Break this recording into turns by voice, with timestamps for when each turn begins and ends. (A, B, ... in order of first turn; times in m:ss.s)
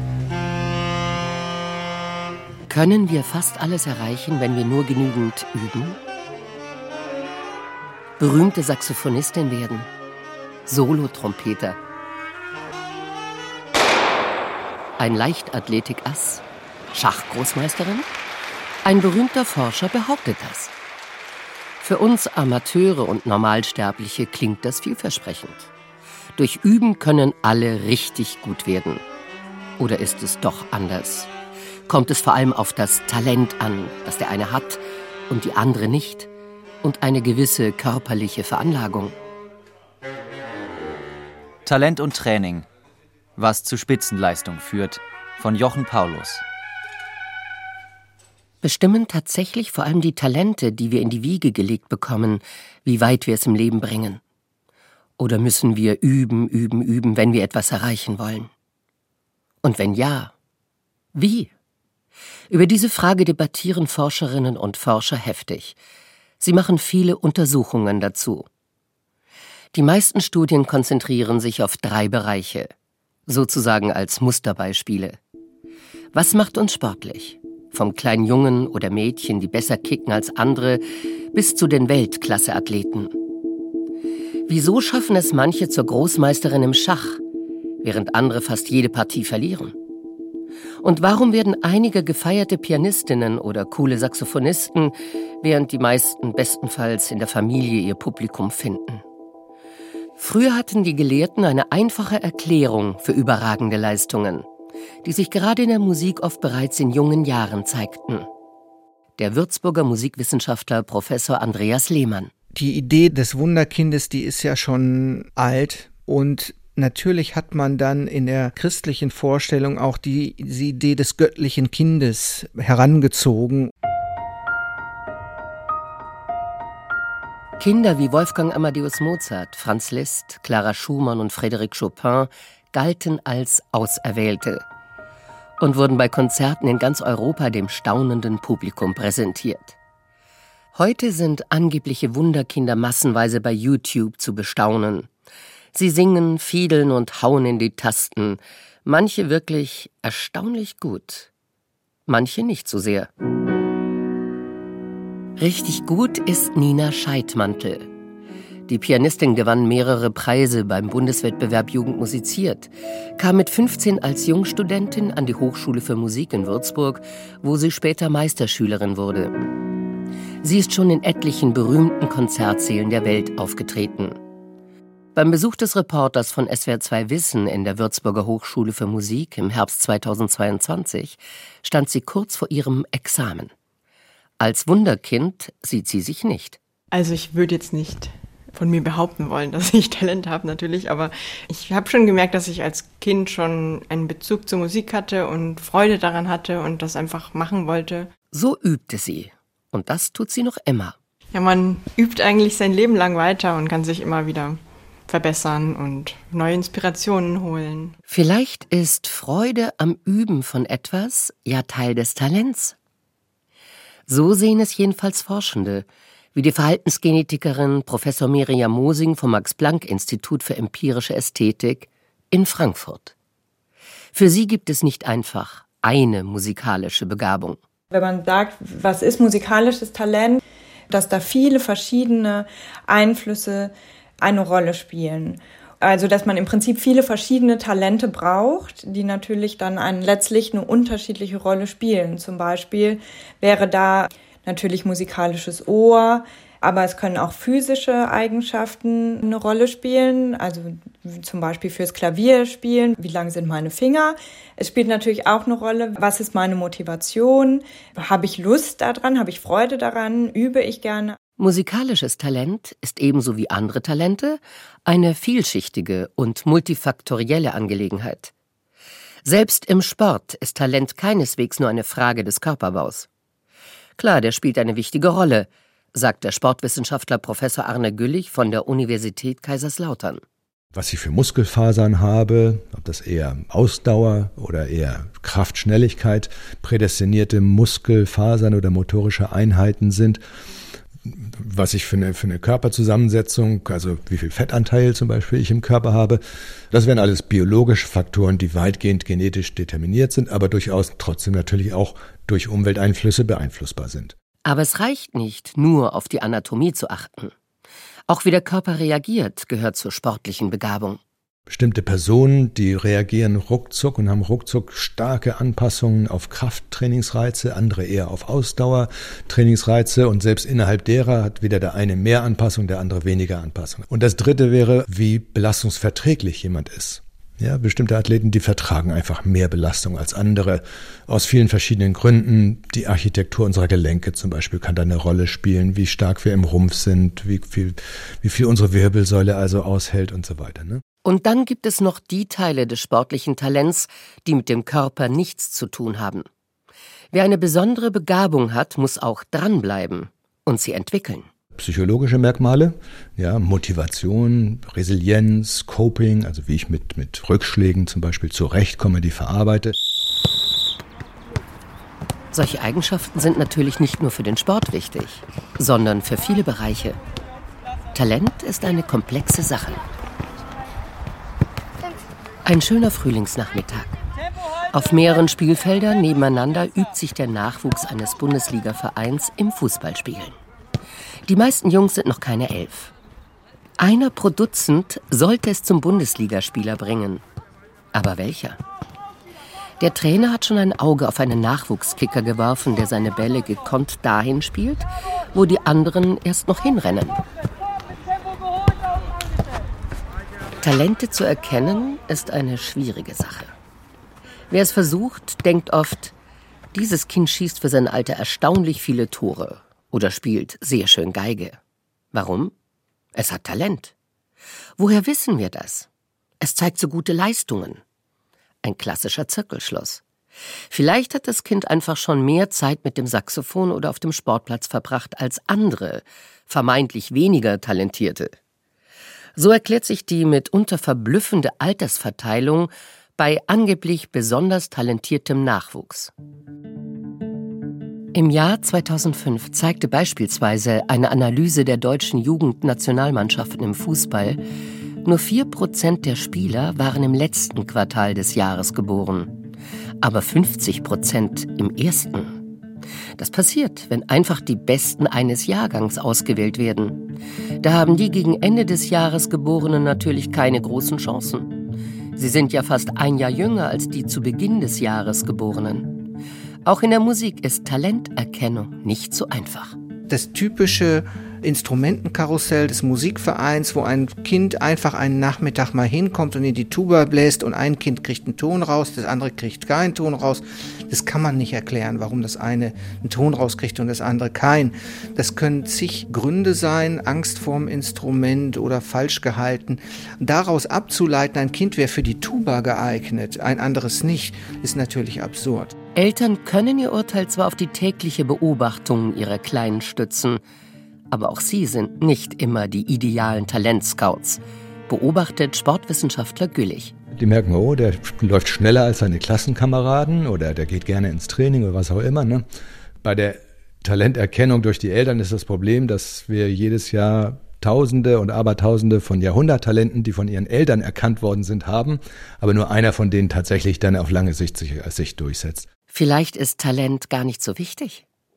0:02.7-0:06.0 A
0:08.2-0:09.9 A
0:10.7-0:11.8 A
0:15.0-0:16.4 A
0:16.9-0:18.1 A
0:18.8-0:20.7 A
0:21.8-0:25.7 A
0:26.4-0:29.0 A
0:29.8-0:31.3 A
0:31.9-0:36.3 A
0:36.8-0:39.2 A
0:41.6-0:42.7 B
0:43.4-0:46.4 B
0:48.6-0:54.2 A
0:55.2-0:58.5 A
0:59.6-1:00.3 A
1:01.2-1:01.5 A
1:02.5-1:05.8 A
1:06.4-1:08.5 A
1:09.7-1:12.7 A
1:13.3-1:15.2 A
1:16.1-1:23.2 A
1:24.5-1:27.2 A
1:27.8-1:29.8 A
1:30.8-1:39.0 A
1:40.2-1:44.5 A
1:45.0-1:48.3 A
1:49.2-1:52.3 A
1:52.5-2:03.7 C
2:07.6-2:14.6 A
2:15.6-2:19.8 A
2:20.8-2:25.1 A
2:25.7-2:31.3 A
2:32.1-2:33.1 A
2:35.4-2:37.9 A
2:38.7-2:49.4 A
2:50.4-2:54.2 A
2:55.2-3:03.5 A
3:04.4-3:06.6 A
3:06.9-3:18.1 D
3:18.3-3:21.0 A
3:21.3-3:28.0 D
3:28.1-3:32.8 A
3:34.1-3:43.1 A
3:44.1-3:47.6 A
3:47.9-4:21.2 E
4:21.4-4:28.3 A
4:29.2-4:33.1 A
4:34.0-4:40.2 A
4:40.7-4:50.2 F
4:51.0-4:56.2 F
4:56.7-5:04.2 F
5:04.4-5:07.3 A
5:08.1-5:11.0 A
5:11.5-5:40.8 F
5:41.0-5:46.3 A
5:47.1-5:51.3 A
5:51.5-5:59.8 F
6:02.3-6:07.0 A
6:07.9-6:09.8 A
6:12.5-6:14.0 A
6:14.7-6:20.4 A
6:21.3-6:22.9 A
6:23.8-6:27.2 A
6:27.9-6:28.6 A
6:29.8-6:37.2 A
6:40.6-6:43.5 A
6:44.5-6:46.1 A
6:46.7-6:51.6 A
6:52.1-6:52.5 A
6:53.2-6:53.9 A
6:54.8-6:55.9 A
6:56.4-6:57.8 A
6:58.6-7:00.0 A
7:00.7-7:08.4 A
7:09.4-7:16.1 A
7:18.1-7:24.4 A
7:25.0-7:29.4 A
7:30.0-7:32.4 A
7:33.2-7:41.5 A
7:42.2-7:46.1 A
7:46.6-7:49.8 A
7:50.1-8:15.8 C
8:16.0-8:20.4 A
8:21.1-8:26.9 A
8:27.1-8:32.4 F
8:33.0-8:45.7 F
8:45.9-8:48.0 A